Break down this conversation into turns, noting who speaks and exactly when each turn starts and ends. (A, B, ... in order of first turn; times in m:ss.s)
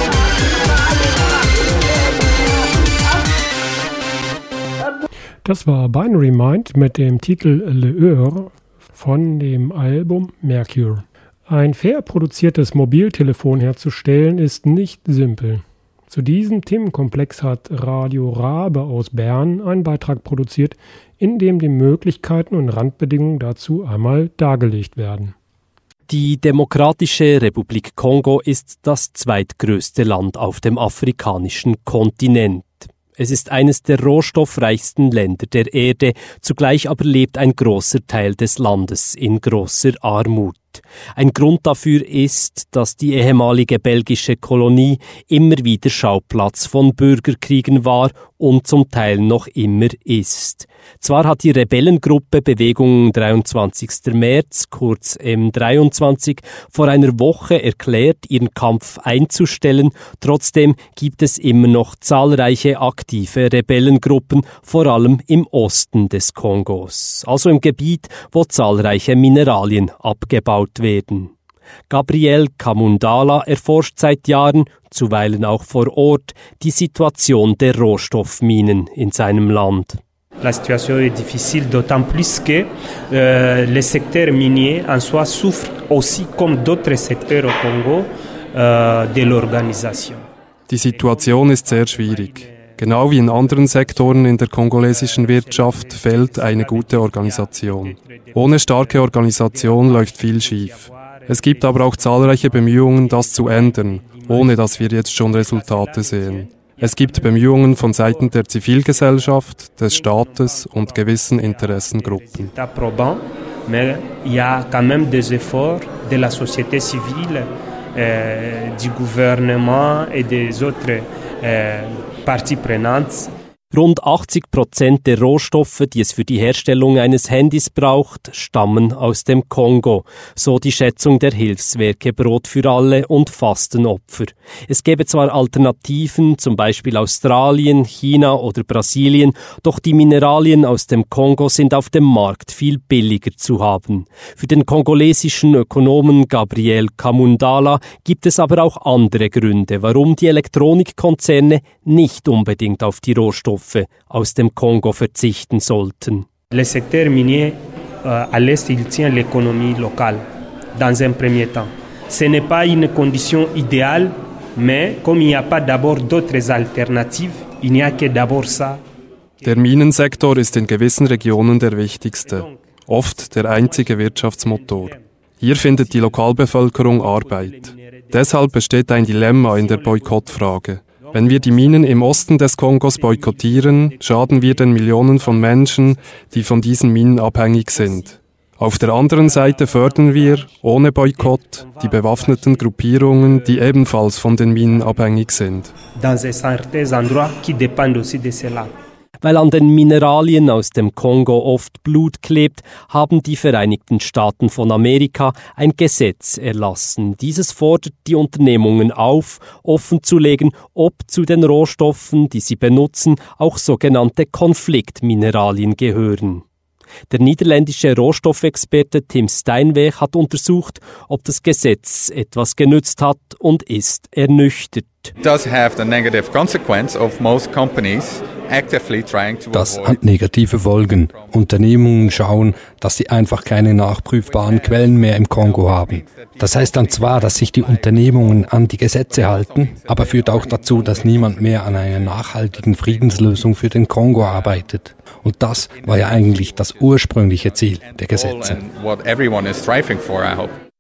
0:05.4-0:25.4 A
0:26.1-1:11.3 B
1:11.9-1:20.0 B
1:20.4-1:30.3 C
1:30.7-1:52.5 D
1:30.8-2:03.3 C
2:03.7-2:36.3 B
2:36.5-2:48.8 C
2:49.4-3:15.7 D
2:52.2-2:55.0 C
2:55.6-3:06.7 C
3:07.7-3:08.2 C
3:08.7-3:14.0 C
3:14.7-3:15.1 C
3:15.9-3:18.8 C
3:19.2-3:36.4 B
3:37.1-3:45.1 B
3:45.2-3:50.1 E
3:49.5-4:08.6 F
3:54.2-4:04.7 E
4:05.6-4:10.6 E